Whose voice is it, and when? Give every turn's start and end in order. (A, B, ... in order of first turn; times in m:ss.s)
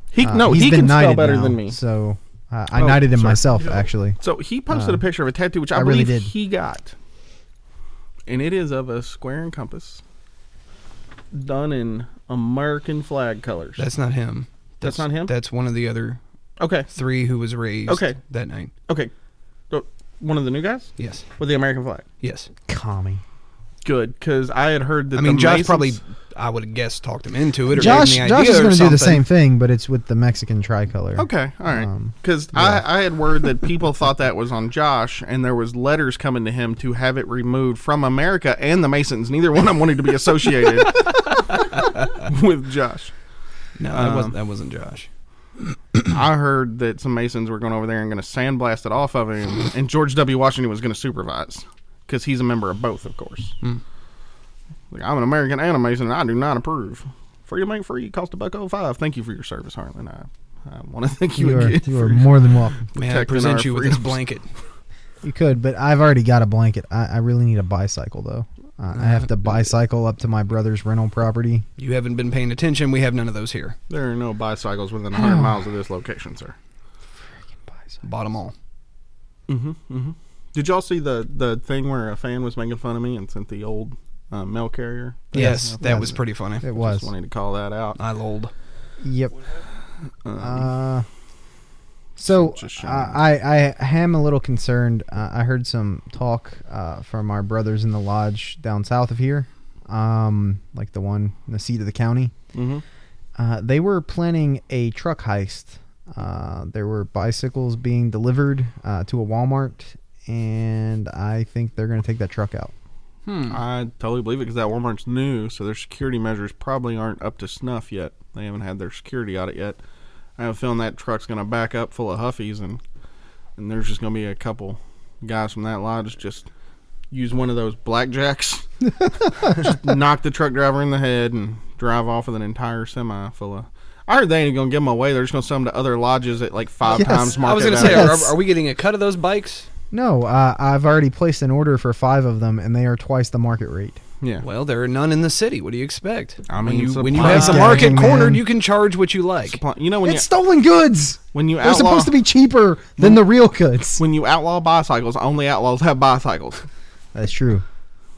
0:00.1-0:01.8 A
0:00.2-0:04.2 B
0:02.7-0:06.9 A
0:04.7-0:05.0 B
0:05.7-0:06.3 B
0:08.3-0:10.0 A
0:11.3-0:13.8 A
0:13.8-0:16.2 C
0:14.8-0:15.3 A
0:16.6-0:16.9 A
0:16.9-0:18.7 C
0:17.9-0:18.2 A
0:19.7-0:22.0 A
0:21.0-0:21.2 C
0:22.2-0:22.5 C
0:22.7-0:23.2 B
0:23.8-0:26.0 A
0:25.1-0:29.2 C
0:27.7-0:32.8 B
0:27.8-0:28.0 A
0:31.2-0:41.2 A
0:41.5-0:41.8 C
0:42.2-0:43.1 A
0:43.8-0:45.1 C
0:43.9-0:44.3 A
0:46.0-0:53.6 A
0:54.9-1:02.3 A
1:01.4-1:02.8 B
1:02.9-1:04.2 A
1:03.0-1:04.4 C
1:05.2-1:11.6 B
1:09.0-1:09.3 C
1:11.8-1:13.8 C
1:13.9-1:16.5 A
1:15.1-1:15.5 B
1:17.5-1:18.0 B
1:18.0-1:18.5 C
1:19.5-1:26.1 A
1:25.3-1:27.1 B
1:25.3-1:26.6 C
1:26.6-1:28.0 A
1:28.0-1:28.5 C
1:29.0-1:29.4 B
1:30.2-1:30.7 A
1:30.4-1:31.0 B
1:32.2-1:42.3 B
1:32.2-1:33.2 A
1:42.5-1:42.8 A
1:43.4-1:52.7 B
1:53.2-1:53.6 C
1:53.5-1:59.8 A
2:00.4-2:02.8 A
2:03.6-2:06.5 A
2:07.1-2:18.2 A
2:16.9-2:19.7 C
2:16.9-2:18.3 B
2:19.9-2:24.0 B
2:24.4-2:29.6 C
2:26.5-2:28.3 A
2:27.2-2:28.4 B
2:29.4-2:30.3 A
2:30.0-2:34.0 B
2:31.3-2:32.1 A
2:34.0-2:36.6 A
2:37.1-2:37.6 B